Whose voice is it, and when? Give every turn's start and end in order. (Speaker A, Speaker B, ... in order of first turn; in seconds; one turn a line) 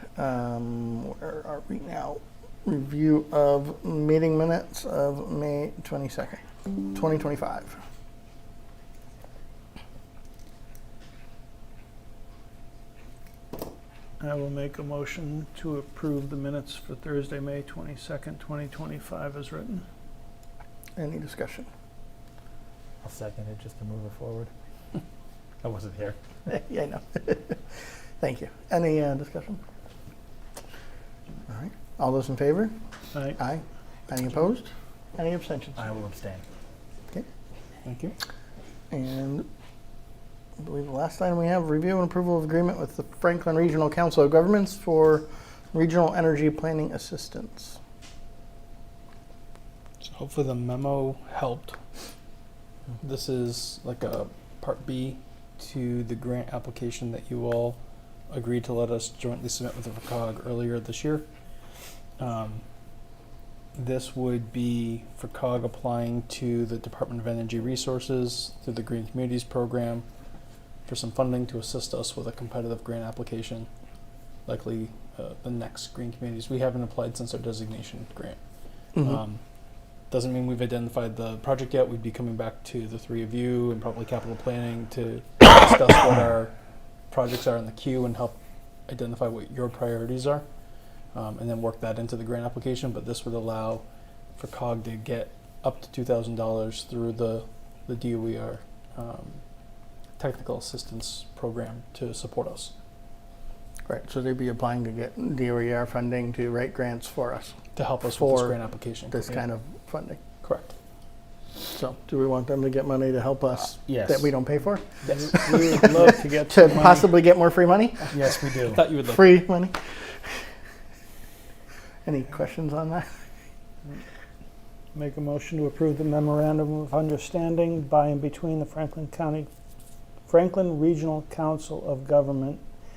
Speaker A: 0.2-6.4
Speaker A: 6.9-7.8
Speaker B: 14.2-19.8
Speaker A: 21.0-21.7
Speaker C: 23.0-24.5
Speaker C: 25.6-26.1
Speaker A: 26.5-29.6
Speaker A: 31.5-32.7
Speaker A: 33.4-35.9
Speaker C: 35.8-36.4
Speaker D: 37.8-38.1
Speaker A: 38.9-39.5
Speaker A: 40.6-47.8
Speaker D: 50.0-51.8
Speaker D: 53.0-57.8
Speaker D: 58.3-61.2
Speaker D: 62.2-62.6
Speaker D: 63.8-70.0
Speaker D: 70.9-73.7
Speaker D: 74.5-78.4
Speaker D: 79.0-79.4
Speaker D: 80.1-86.5
Speaker D: 87.1-90.4
Speaker D: 91.1-93.8
Speaker D: 94.4-99.4
Speaker D: 100.2-102.7
Speaker A: 103.8-107.5
Speaker D: 107.7-109.4
Speaker A: 108.2-108.5
Speaker A: 109.1-110.2
Speaker D: 110.4-110.7
Speaker A: 111.7-118.1
Speaker C: 113.6-114.3
Speaker B: 115.1-117.1
Speaker C: 118.1-118.8
Speaker D: 118.6-119.4
Speaker A: 118.9-120.2
Speaker A: 122.0-123.1
Speaker B: 124.9-129.5
Speaker B: 130.3-132.6